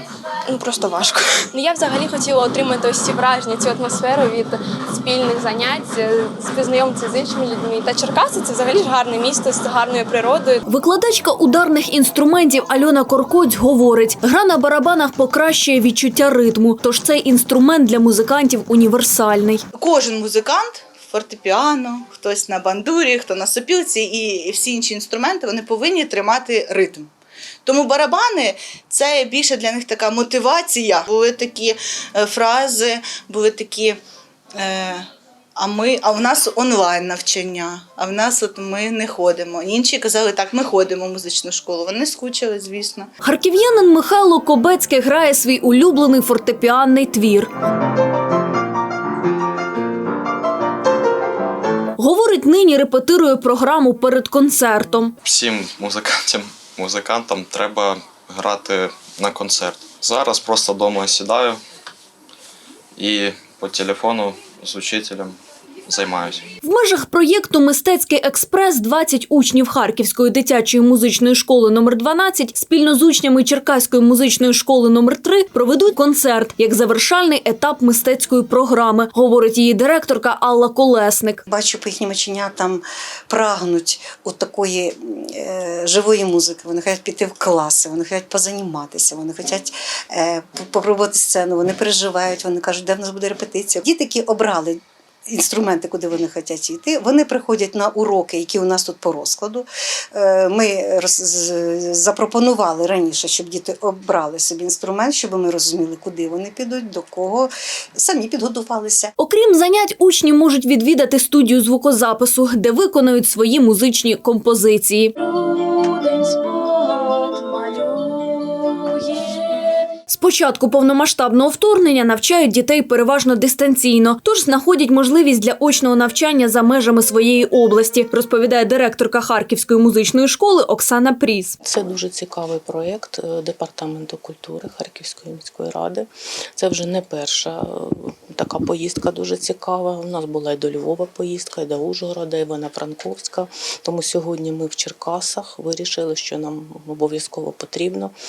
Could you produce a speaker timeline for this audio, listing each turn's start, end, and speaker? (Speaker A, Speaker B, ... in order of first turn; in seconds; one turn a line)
Speaker A: 0.5-10.6
Speaker B: 10.7-19.6
Speaker C: 19.8-27.1
Speaker C: 27.6-34.0
Speaker C: 34.6-35.0
Speaker C: 35.6-43.1
Speaker B: 43.2-47.5
Speaker B: 52.0-55.1
Speaker D: 55.2-61.6
Speaker D: 63.0-66.4
Speaker B: 66.6-81.4
Speaker E: 81.5-109.1
Speaker B: 109.2-116.5
Speaker B: 117.3-117.9
Speaker B: 120.1-131.6
Speaker F: 131.6-148.1